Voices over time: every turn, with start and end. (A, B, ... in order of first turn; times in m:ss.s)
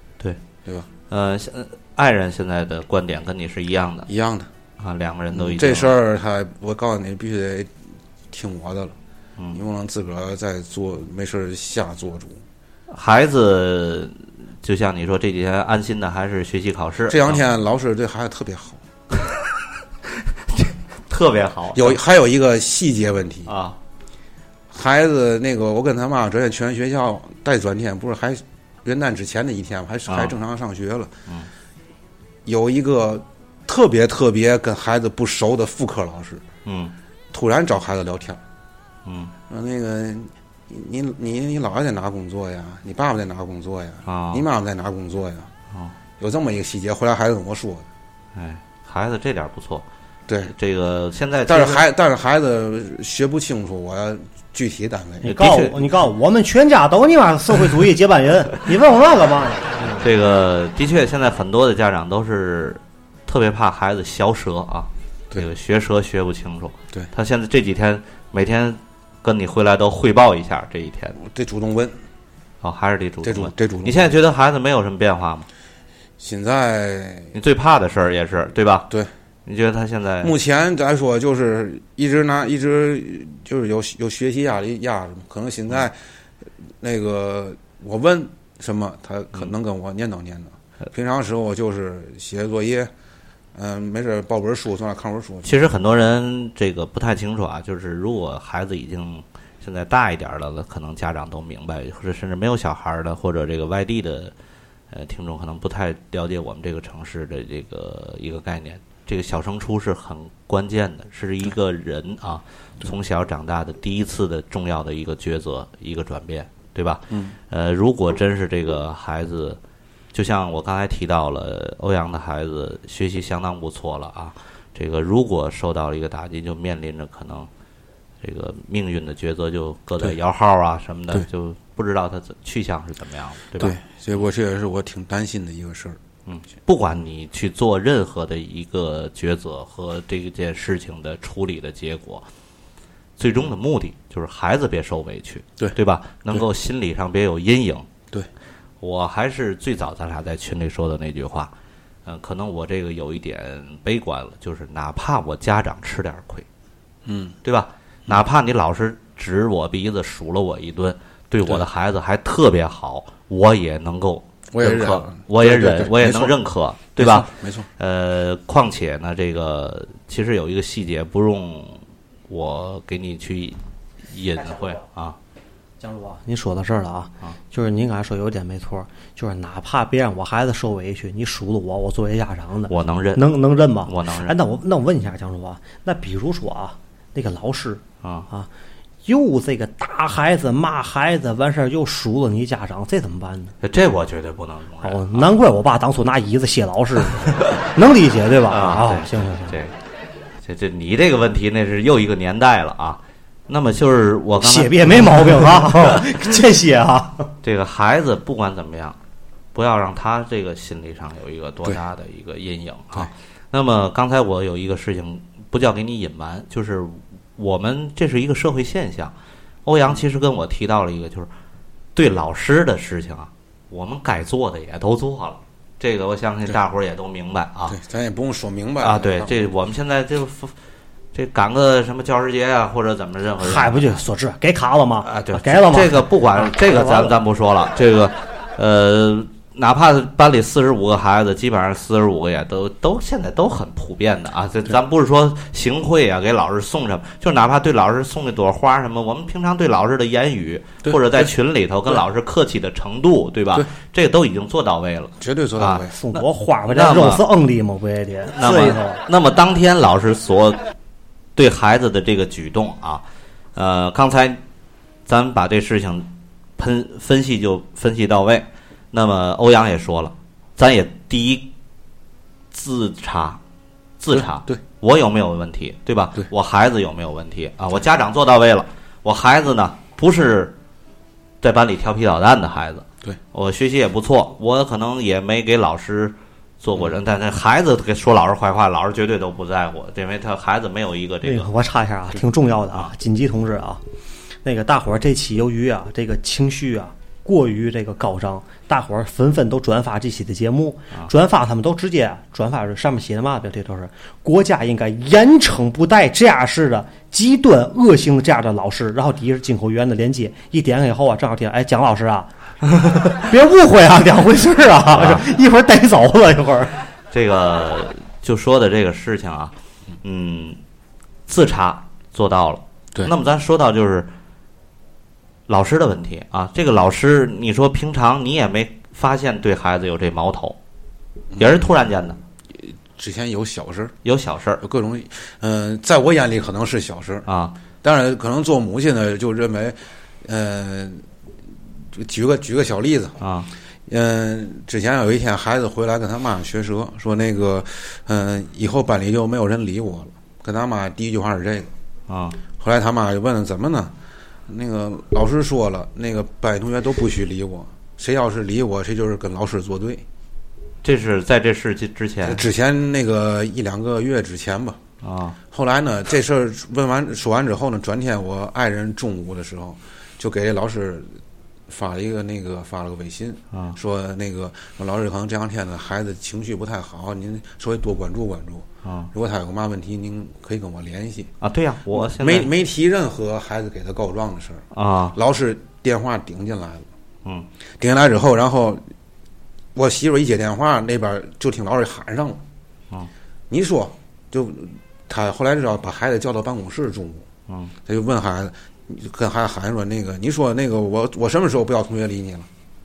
0:01.1-0:04.1 A
0:04.1-0:04.5 B
0:04.8-0:05.9 A
0:05.3-0:07.7 B
0:08.3-0:09.0 B
0:09.5-0:12.4 B
0:12.9-0:17.4 A
0:17.1-0:18.8 B
0:20.5-0:22.0 A
0:21.7-0:23.5 B
0:23.5-0:23.8 A
0:24.7-0:31.1 B
0:30.1-0:30.3 A
0:32.4-0:36.4 B
0:36.7-0:36.9 A
0:37.3-0:38.4 B
0:39.1-0:39.3 A
0:39.5-0:45.5 B
0:44.1-0:44.5 A
0:46.2-0:47.9 B
0:48.4-0:49.9 A
0:50.3-0:50.5 B
0:50.5-0:51.8 A
0:51.5-0:55.3 B
0:55.2-1:00.0 C
0:55.2-0:55.9 A
1:00.0-1:11.2 A
1:11.2-1:12.0 B
1:12.6-1:15.5 A
1:13.2-1:14.1 B
1:16.2-1:17.3 B
1:17.4-1:18.9 A
1:19.5-1:20.3 A
1:20.2-1:26.0 B
1:26.8-1:32.9 B
1:33.6-1:35.6 B
1:35.4-1:44.3 A
1:44.9-1:59.6 A
2:00.1-2:07.5 A
2:08.2-2:13.8 A
2:13.6-2:16.0 B
2:16.3-2:22.2 A
2:23.2-2:27.9 A
2:28.8-2:31.5 A
2:32.1-2:36.5 A
2:37.0-2:37.4 B
2:37.4-2:53.6 A
2:44.5-2:46.4 B
2:47.0-2:47.7 B
2:54.1-2:55.2 A
2:54.4-2:54.8 C
2:55.8-3:08.5 C
3:02.7-3:03.3 A
3:03.8-3:04.4 A
3:08.0-3:08.3 A
3:09.1-3:13.5 C
3:13.6-3:15.3 A
3:14.8-3:19.6 C
3:18.5-3:19.7 A
3:20.4-3:26.1 A
3:24.4-3:27.3 C
3:27.4-3:29.0 A
3:29.6-3:39.1 A
3:39.7-3:41.3 A
3:42.0-3:47.8 A
3:47.7-3:49.5 B
3:48.8-3:50.5 A
3:51.1-3:54.0 A
3:53.4-3:57.2 C
3:55.0-4:17.3 A
4:10.8-4:11.3 B
4:15.2-4:15.9 B
4:15.9-4:19.0 C
4:18.3-4:20.6 A
4:21.4-4:23.0 A
4:23.6-4:24.4 A
4:25.1-4:31.5 A
4:32.5-4:33.4 A
4:34.0-4:40.6 A
4:34.1-4:34.6 B
4:41.4-4:51.5 A
4:51.2-4:53.8 C
4:54.4-5:12.3 C
5:13.1-5:16.8 C
5:14.9-5:15.3 A
5:17.1-5:20.6 A
5:21.3-5:24.1 A
5:25.5-5:30.6 A
5:31.3-5:31.7 B
5:31.4-5:32.2 A
5:32.6-5:33.9 B
5:34.0-5:34.6 A
5:34.6-5:37.3 B
5:37.3-5:37.6 A
5:37.8-5:41.0 B
5:41.9-5:43.2 B
5:43.2-5:43.5 A
5:43.9-5:51.7 B
5:52.1-5:52.4 A
5:52.6-5:53.9 B
5:54.5-6:00.0 B
6:00.8-6:02.4 A
6:02.2-6:04.8 B
6:05.0-6:05.4 A
6:05.5-6:11.2 B
6:11.7-6:21.3 B
6:18.8-6:19.1 A
6:21.4-6:22.5 A
6:21.9-6:26.9 B
6:24.7-6:25.2 A
6:27.8-6:28.8 B
6:29.8-6:32.4 B
6:33.5-6:37.3 B
6:37.5-6:37.7 A
6:37.9-6:42.5 B